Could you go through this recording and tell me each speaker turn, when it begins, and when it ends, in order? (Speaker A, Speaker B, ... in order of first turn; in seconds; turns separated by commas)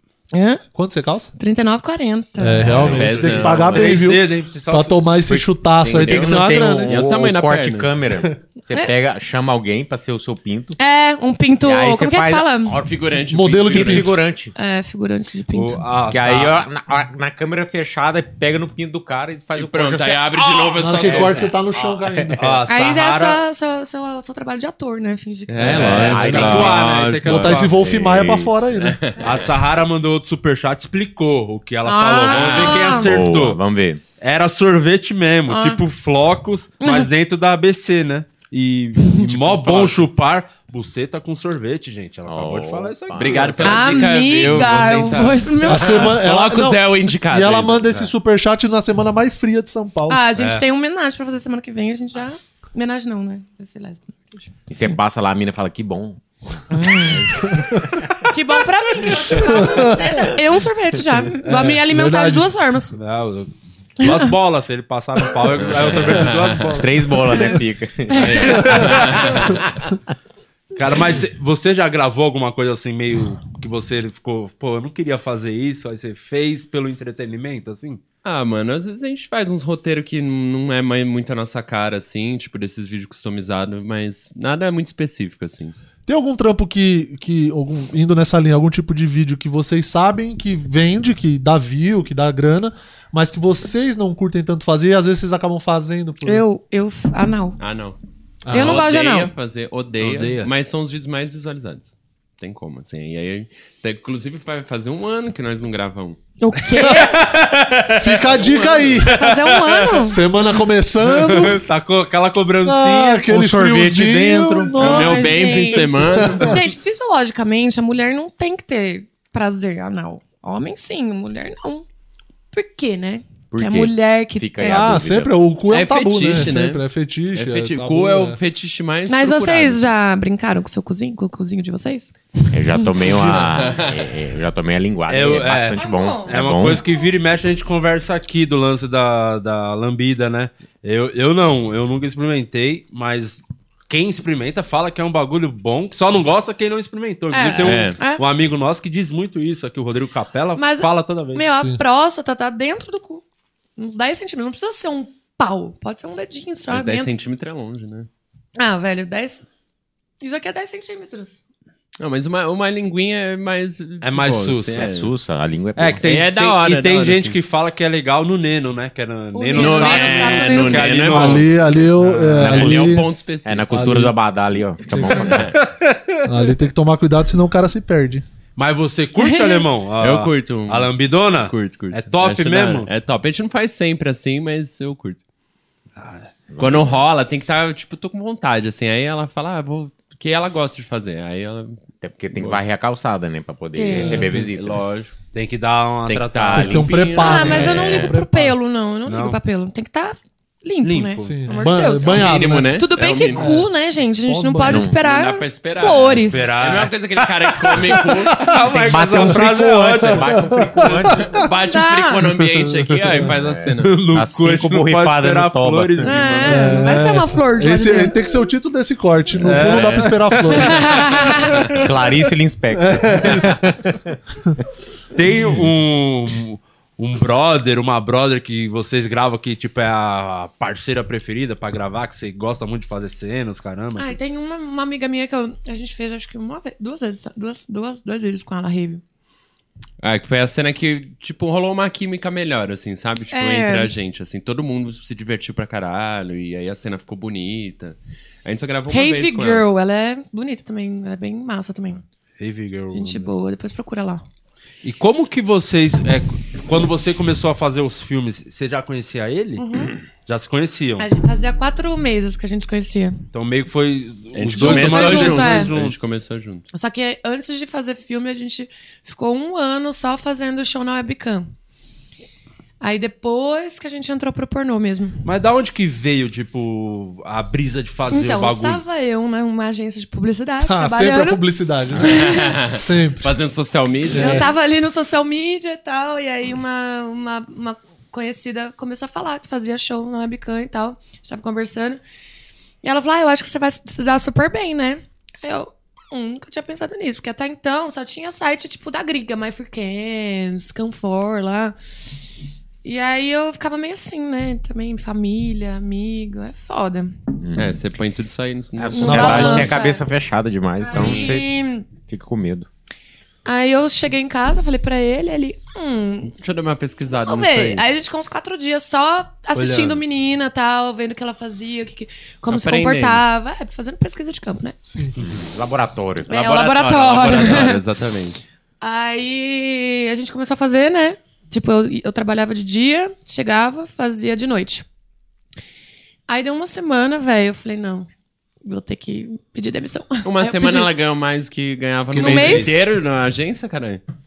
Speaker A: 0.3-0.6, Speaker B: 0.7-1.3, Speaker A: 1.4-2.7, Speaker B: 2.4-7.1, Speaker C: 2.6-3.5, Speaker D: 2.7-4.0, Speaker E: 3.4-5.2, Speaker C: 5.3-10.8, Speaker D: 5.8-7.9, Speaker A: 10.8-12.8, Speaker C: 11.6-12.9, Speaker D: 12.8-14.1, Speaker B: 13.3-14.1, Speaker C: 13.6-14.5, Speaker A: 14.5-15.8, Speaker E: 15.5-16.7, Speaker C: 16.1-22.3, Speaker D: 19.5-21.5, Speaker B: 20.7-22.6, Speaker E: 22.4-23.4, Speaker A: 22.7-26.4, Speaker D: 25.5-27.7, Speaker C: 25.6-27.0, Speaker E: 25.6-27.7, Speaker B: 27.2-29.0, Speaker C: 27.6-28.6, Speaker D: 28.7-29.4, Speaker E: 29.2-33.6, Speaker A: 31.8-33.1, Speaker D: 32.3-32.9, Speaker C: 32.9-34.0, Speaker E: 34.2-44.0, Speaker A: 35.5-35.8, Speaker A: 36.8-37.1, Speaker D: 39.4-40.0, Speaker C: 42.3-43.9, Speaker D: 43.1-48.1, Speaker A: 43.6-46.2, Speaker B: 45.6-50.2, Speaker A: 50.1-54.5, Speaker E: 50.4-50.6, Speaker C: 54.7-58.2, Speaker A: 56.8-57.2, Speaker A: 58.2-63.0, Speaker B: 59.3-60.2, Speaker B: 61.3-62.5, Speaker E: 63.0-66.9, Speaker A: 64.0-64.3, Speaker D: 65.6-66.8, Speaker C: 66.8-68.9, Speaker D: 68.1-69.9, Speaker A: 68.3-68.5, Speaker E: 70.7-78.0, Speaker D: 78.2-85.7, Speaker B: 86.0-96.4, Speaker A: 96.2-97.6, Speaker D: 97.6-98.0, Speaker B: 98.5-98.8, Speaker D: 98.5-106.2, Speaker A: 98.5-99.3, Speaker E: 100.0-100.5, Speaker A: 106.4-107.2, Speaker E: 106.8-108.2, Speaker B: 108.0-109.1, Speaker D: 108.2-109.1, Speaker A: 109.0-110.2, Speaker E: 109.2-109.8, Speaker B: 110.0-111.6, Speaker E: 111.0-113.2, Speaker B: 112.6-116.6, Speaker C: 113.3-115.0, Speaker A: 114.8-121.8, Speaker D: 114.8-116.6, Speaker A: 122.5-125.0, Speaker C: 123.5-125.4, Speaker B: 124.6-128.4, Speaker D: 125.7-126.8, Speaker D: 127.3-129.8, Speaker A: 129.1-132.2, Speaker C: 132.5-136.8, Speaker D: 133.3-134.0, Speaker E: 135.1-151.5, Speaker A: 135.8-136.8, Speaker A: 147.3-148.2, Speaker D: 147.4-148.0, Speaker A: 150.6-153.2, Speaker B: 151.5-151.8, Speaker A: 153.8-157.2, Speaker D: 156.7-158.1, Speaker A: 158.6-159.4, Speaker A: 160.2-161.3, Speaker D: 162.0-165.1, Speaker E: 164.0-164.8, Speaker C: 164.8-166.0, Speaker E: 165.8-171.5, Speaker D: 166.0-167.4, Speaker A: 169.3-171.1, Speaker D: 169.5-171.6, Speaker B: 171.1-173.1, Speaker E: 172.0-172.3, Speaker D: 172.2-173.7, Speaker C: 172.5-175.5, Speaker B: 173.7-174.2, Speaker B: 174.9-175.4, Speaker D: 175.0-175.5, Speaker E: 175.5-176.2, Speaker B: 176.2-178.2, Speaker E: 178.6-182.9, Speaker A: 179.2-179.7, Speaker D: 180.0-185.2, Speaker E: 186.0-186.3, Speaker C: 186.5-187.0, Speaker D: 186.6-191.8, Speaker C: 192.0-194.8, Speaker D: 192.3-192.6, Speaker A: 193.7-194.2, Speaker E: 193.9-194.2, Speaker D: 194.2-195.1, Speaker E: 195.3-197.0, Speaker D: 196.1-198.2, Speaker B: 196.5-198.5, Speaker A: 197.2-206.8, Speaker E: 199.1-199.4, Speaker E: 200.8-201.9, Speaker B: 201.2-202.7, Speaker D: 202.0-203.5, Speaker B: 203.3-203.7, Speaker B: 204.3-204.9, Speaker C: 204.6-204.9, Speaker D: 204.9-208.3, Speaker E: 206.3-210.4, Speaker B: 208.1-208.4, Speaker C: 208.6-211.4, Speaker B: 210.5-211.4, Speaker D: 211.3-213.9, Speaker A: 211.7-212.3, Speaker C: 213.3-216.2, Speaker E: 213.8-216.8, Speaker A: 216.0-218.2, Speaker B: 216.4-221.3, Speaker E: 219.4-220.1, Speaker D: 219.6-220.8, Speaker A: 220.6-221.6, Speaker C: 221.7-224.0, Speaker B: 222.7-223.7, Speaker E: 225.1-234.2, Speaker A: 233.9-239.0, Speaker D: 240.0-249.6, Speaker A: 243.3-243.9, Speaker A: 248.9-252.0, Speaker E: 252.4-253.3, Speaker A: 252.9-254.2, Speaker E: 254.8-259.7, Speaker A: 259.6-259.9, Speaker E: 260.2-261.1, Speaker A: 261.0-263.2, Speaker E: 263.3-266.0, Speaker D: 264.3-266.6, Speaker A: 264.6-265.7, Speaker A: 266.7-271.5, Speaker A: 272.8-275.2, Speaker E: 275.2-278.8, Speaker A: 278.1-281.4, Speaker B: 280.6-283.3, Speaker D: 282.0-284.5, Speaker A: 282.0-282.6, Speaker A: 284.1-292.0, Speaker B: 284.1-284.5, Speaker A: 292.8-301.8, Speaker A: 302.8-307.3, Speaker C: 307.4-307.8, Speaker D: 307.5-309.7, Speaker C: 308.8-312.7, Speaker A: 308.9-310.0, Speaker B: 309.0-309.7, Speaker A: 310.8-311.9, Speaker D: 310.9-311.4, Speaker A: 313.4-316.3, Speaker D: 316.3-317.8, Speaker A: 317.1-324.8, Speaker E: 319.5-320.0, Speaker D: 322.5-323.2, Speaker B: 324.9-325.1, Speaker C: 325.2-326.4, Speaker A: 326.3-327.8, Speaker D: 326.3-328.4, Speaker A: 328.8-334.8, Speaker A: 336.3-338.1, Speaker A: 338.6-340.9, Speaker D: 340.2-344.0, Speaker E: 342.1-342.8, Speaker A: 342.1-342.8